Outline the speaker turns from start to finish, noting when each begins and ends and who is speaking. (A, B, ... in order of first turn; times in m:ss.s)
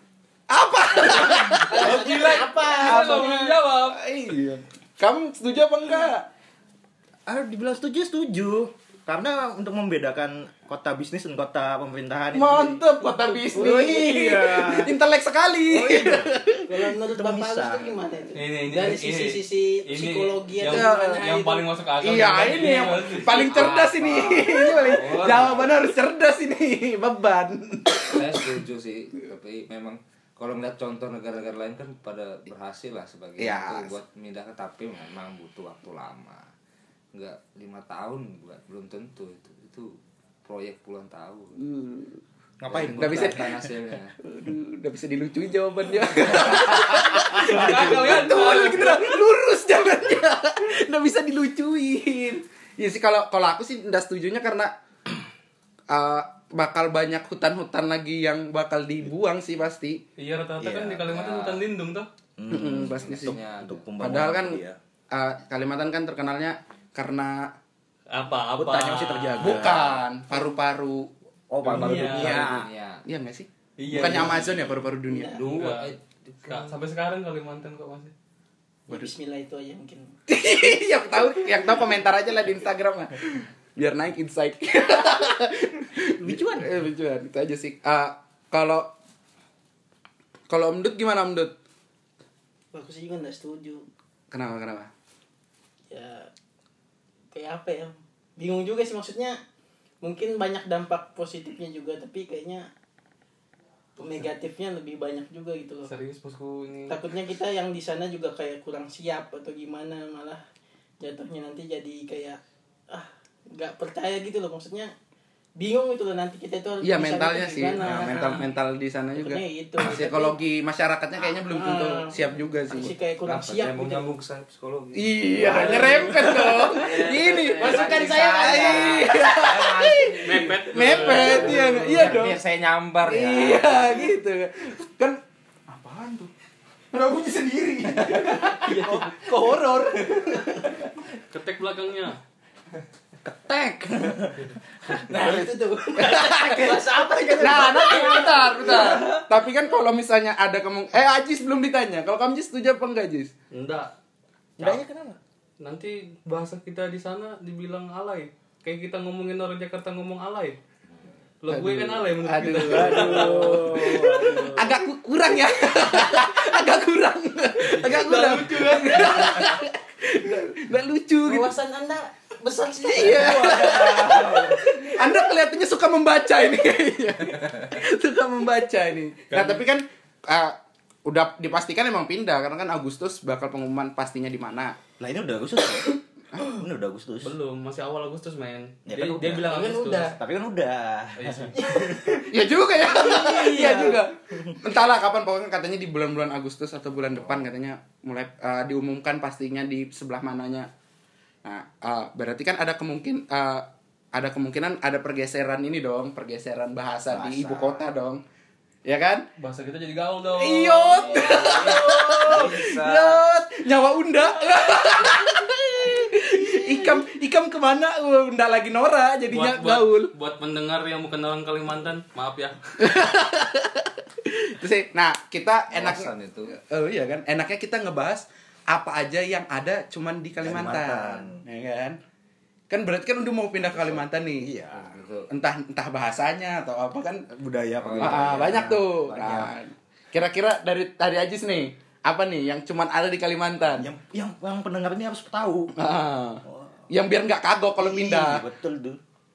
0:00.5-0:02.0 A
0:00.9-0:03.6 B
0:01.8-0:04.0 C
0:02.8-0:06.3 A
0:07.2-0:12.8 D
0:12.3-0:16.8 A
0:13.5-0:14.9 D
0:15.7-0:16.3 D
0:16.7-0:21.7 B
0:17.1-0:17.9 D
0:18.3-0:23.4 C
0:20.6-0:21.2 A
0:22.0-0:28.6 A
0:23.4-0:25.8 E
0:23.4-0:24.5 D
0:25.2-0:25.4 C
0:28.1-0:36.5 E
0:33.4-0:33.9 A
0:37.1-0:39.9 E
0:40.4-0:41.6 E
0:41.6-0:42.2 A
0:42.6-0:43.6 D
0:42.7-0:44.1 E
0:42.9-0:43.7 A
0:44.2-0:55.2 A
0:46.3-0:47.0 E
0:47.2-0:49.2 C
0:47.5-0:48.1 D
0:55.9-1:00.0 A
1:00.2-1:02.1 C
1:00.6-1:01.1 D
1:01.0-1:01.6 E
1:02.4-1:04.8 D
1:02.5-1:03.4 A
1:02.7-1:04.2 E
1:04.0-1:04.6 A
1:05.1-1:07.5 A
1:08.1-1:09.7 C
1:08.5-1:09.9 D
1:09.4-1:11.1 A
1:11.5-1:12.7 D
1:11.6-1:13.0 E
1:11.6-1:12.5 C
1:11.8-1:15.3 A
1:13.8-1:14.5 C
1:15.1-1:15.5 B
1:15.3-1:16.7 E
1:15.5-1:18.1 C
1:18.9-1:20.1 B
1:20.3-1:28.9 A
1:26.2-1:26.7 D
1:30.5-1:31.5 A
1:32.7-1:33.8 B
1:34.3-1:34.9 A
1:35.9-1:36.3 B
1:37.3-1:39.4 B
1:40.0-1:42.7 B
1:44.0-1:45.9 B
1:45.8-1:47.0 C
1:46.9-1:50.4 B
1:51.0-1:52.4 B
1:52.9-1:54.9 B
1:55.6-1:58.4 B
1:56.8-2:02.9 A
1:57.9-1:58.1 D
1:59.1-2:00.4 B
2:01.4-2:02.2 B
2:02.7-2:04.1 B
2:02.8-2:14.1 E
2:04.9-2:12.4 A
2:05.4-2:06.8 B
2:07.6-2:09.1 B
2:10.2-2:11.8 C
2:13.0-2:16.3 A
2:16.9-2:20.8 A
2:18.6-2:19.3 B
2:21.3-2:22.2 C
2:23.2-2:24.3 A
2:24.0-2:24.3 D
2:25.1-2:29.2 D
2:25.1-2:29.2 B
2:26.0-2:26.8 A
2:27.4-2:33.3 A
2:33.5-2:33.9 C
2:34.6-2:35.2 D
2:35.6-2:40.6 C
2:41.4-2:44.0 C
2:41.5-2:51.5 A
2:42.6-2:44.7 D
2:44.2-2:44.5 B
2:47.6-2:49.5 C
2:51.2-2:54.3 B
2:52.9-3:04.8 A
2:53.0-2:54.6 D
2:59.3-2:59.6 C
3:05.0-3:07.3 D
3:07.2-3:10.2 C
3:08.8-3:12.3 D
3:09.4-3:10.2 B
3:11.2-3:11.6 C
3:11.5-3:12.2 B
3:12.3-3:20.7 A
3:12.9-3:14.0 B
3:13.5-3:14.6 D
3:21.4-3:28.2 A
3:27.1-3:27.8 D
3:28.8-3:29.3 A
3:29.4-3:32.3 C
3:30.4-3:40.1 A
3:31.0-3:33.2 E
3:36.5-3:36.8 D
3:39.3-3:42.6 C
3:42.8-3:52.0 A
3:45.7-3:46.5 E
3:50.4-3:51.4 D
3:52.7-3:54.5 A
3:53.6-3:55.0 D
3:54.7-3:55.3 E
3:55.3-3:57.2 A
3:57.3-3:59.5 D
3:57.8-3:58.5 E
3:58.0-4:03.9 A
4:03.7-4:05.7 D
4:05.7-4:08.4 A
4:06.4-4:06.8 D
4:07.8-4:09.0 D